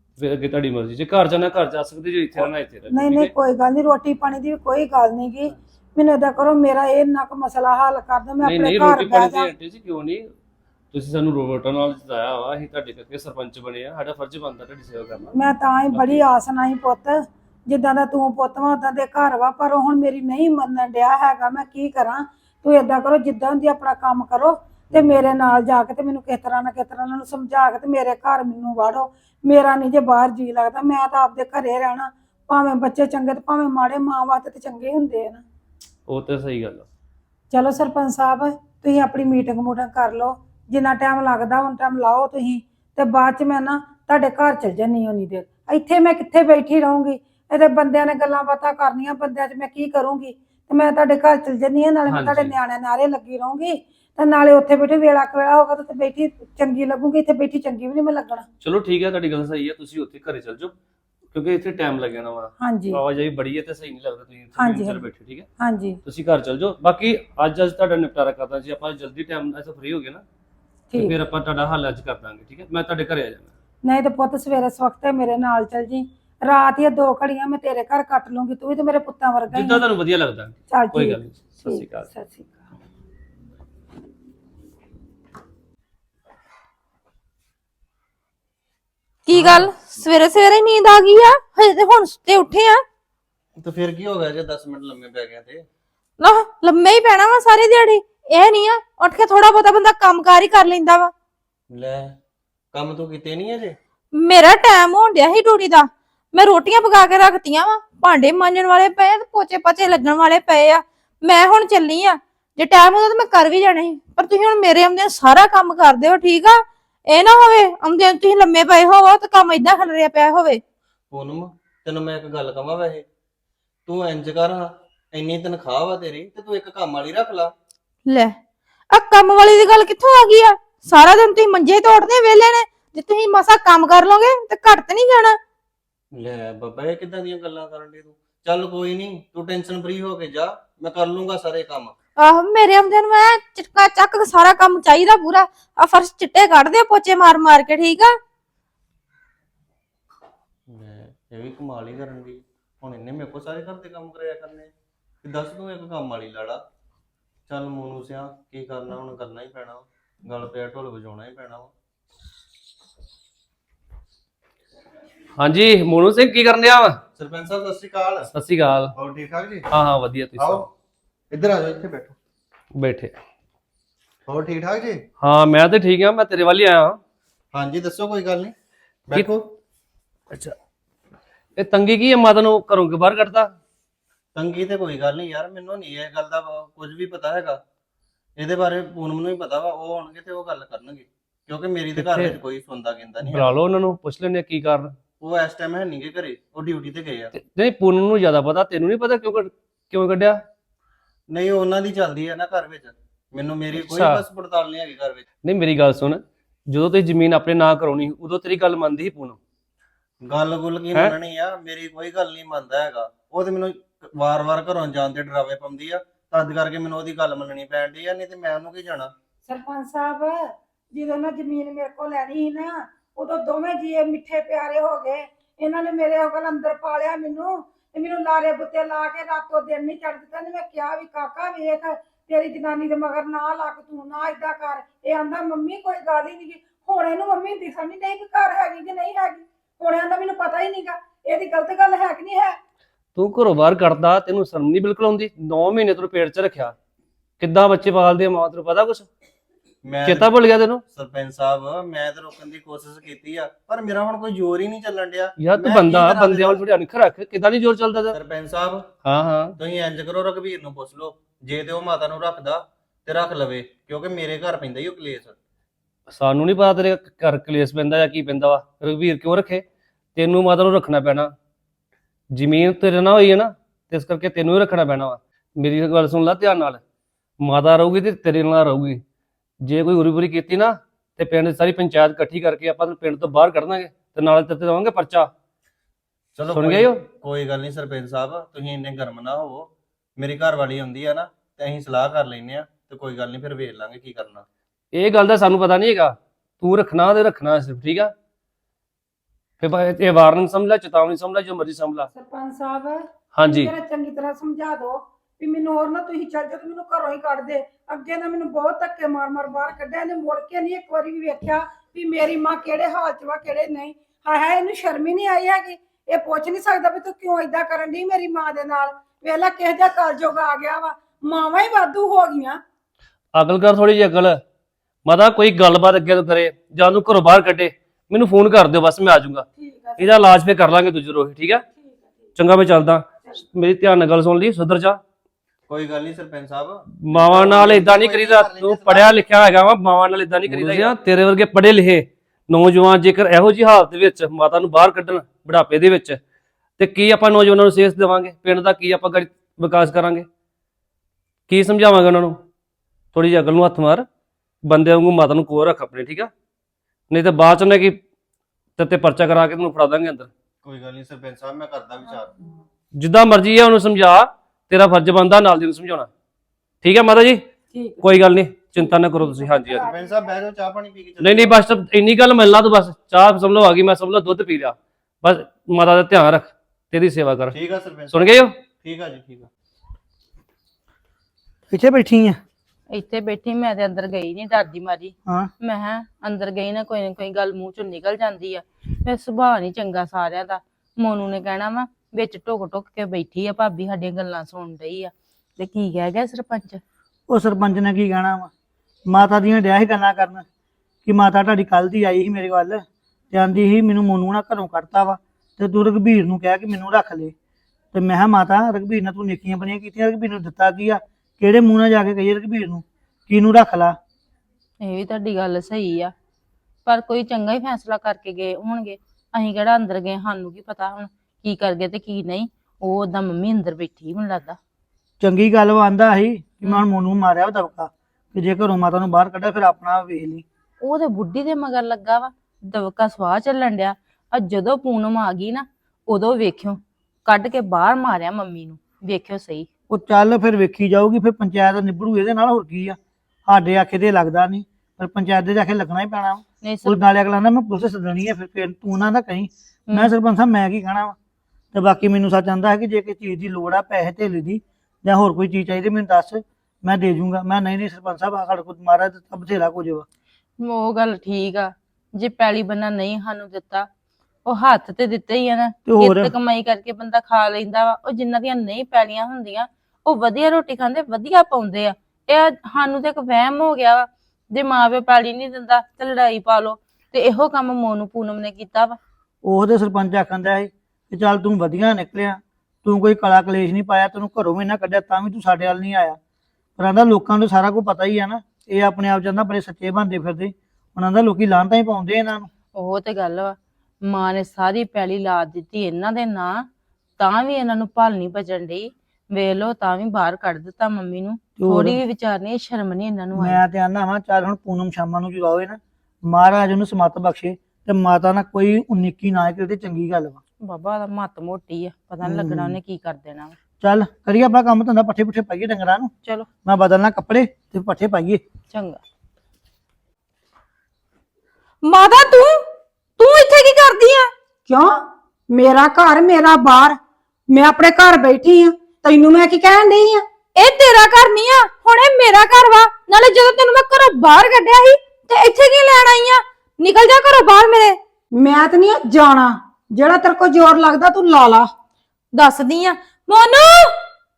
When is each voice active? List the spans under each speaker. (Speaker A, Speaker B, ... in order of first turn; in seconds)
Speaker A: 0.2-3.3, 8.4-10.3, 10.9-15.3, 15.9-16.2, 24.9-25.3, 36.1-36.9, 52.1-52.5, 58.6-60.7, 61.3-65.5, 66.0-70.2, 71.0-73.5, 79.5-82.1, 89.3-89.6, 165.4-167.0, 168.3-168.9, 169.7-170.7, 172.8-173.2, 175.2-177.0, 181.6-183.5, 192.0-192.4, 193.2-194.9, 197.3-200.4, 203.7-204.2, 205.4-209.4, 243.2-246.8, 247.4-249.1, 250.0-250.8, 255.4-258.1, 259.0-259.6, 266.1-269.6, 270.2-271.3, 272.3-276.8, 277.4-279.0, 279.6-285.3, 286.5-287.0, 294.9-298.1, 299.6-302.1, 303.3-303.7, 323.4-324.4, 325.1-329.5, 330.0-331.6, 332.4-335.0, 337.0-346.2, 346.8-350.3, 351.5-352.4, 353.1-354.1, 354.7-356.3, 357.1-358.0, 358.8-360.3, 363.0-366.1, 366.8-367.4, 368.0-369.9, 371.2-377.6, 378.1-378.6
Speaker B: 2.4-9.5, 15.3-35.4, 37.5-58.5, 62.6-63.0, 64.6-65.0, 65.6-66.0, 70.9-71.2, 73.8-79.8, 80.7-82.6, 219.5-220.3, 220.9-242.6, 302.1-322.6, 329.6-330.2, 331.8-332.1, 367.7-368.1, 368.8-370.1, 524.7-525.0, 525.5-527.0, 527.5-530.2, 538.4-541.7
Speaker C: 89.3-92.8, 96.2-101.1, 104.2-120.6, 128.1-128.3, 128.9-135.4, 142.2-148.1, 521.8-522.5, 523.2-524.3, 530.6-538.0, 542.4-543.9
Speaker D: 93.6-95.7, 101.7-102.1, 102.7-103.8, 121.1-123.1, 123.9-127.5, 136.1-141.9, 150.7-154.7, 155.2-156.6, 157.5-161.7, 167.2-168.3, 168.9-169.7, 170.3-170.7, 171.3-172.2, 174.3-175.0, 177.5-178.6, 179.1-179.5, 184.3-187.6, 188.4-193.6, 195.2-197.3, 201.3-205.2, 210.2-219.1, 249.8-250.4, 250.9-256.6, 258.1-258.9, 259.6-265.4, 286.4-294.4, 335.7-339.2, 340.5-341.0, 360.6-362.3, 369.6-371.6, 377.5-379.5
Speaker E: 381.7-382.4, 397.3-398.5, 399.1-400.4, 401.1-407.3, 407.9-414.0, 425.2-430.4, 439.9-451.1, 451.7-460.1, 465.9-466.3, 479.4-486.2, 486.8-492.5, 501.6-502.0, 503.4-510.4, 512.2-512.8, 513.8-516.1, 516.6-518.4
Speaker F: 382.9-396.8, 414.8-416.1, 416.9-424.6, 430.8-439.7, 446.6-447.0, 460.6-463.9, 464.5-479.0, 492.8-496.7, 497.2-503.6, 510.6-513.6, 518.7-519.0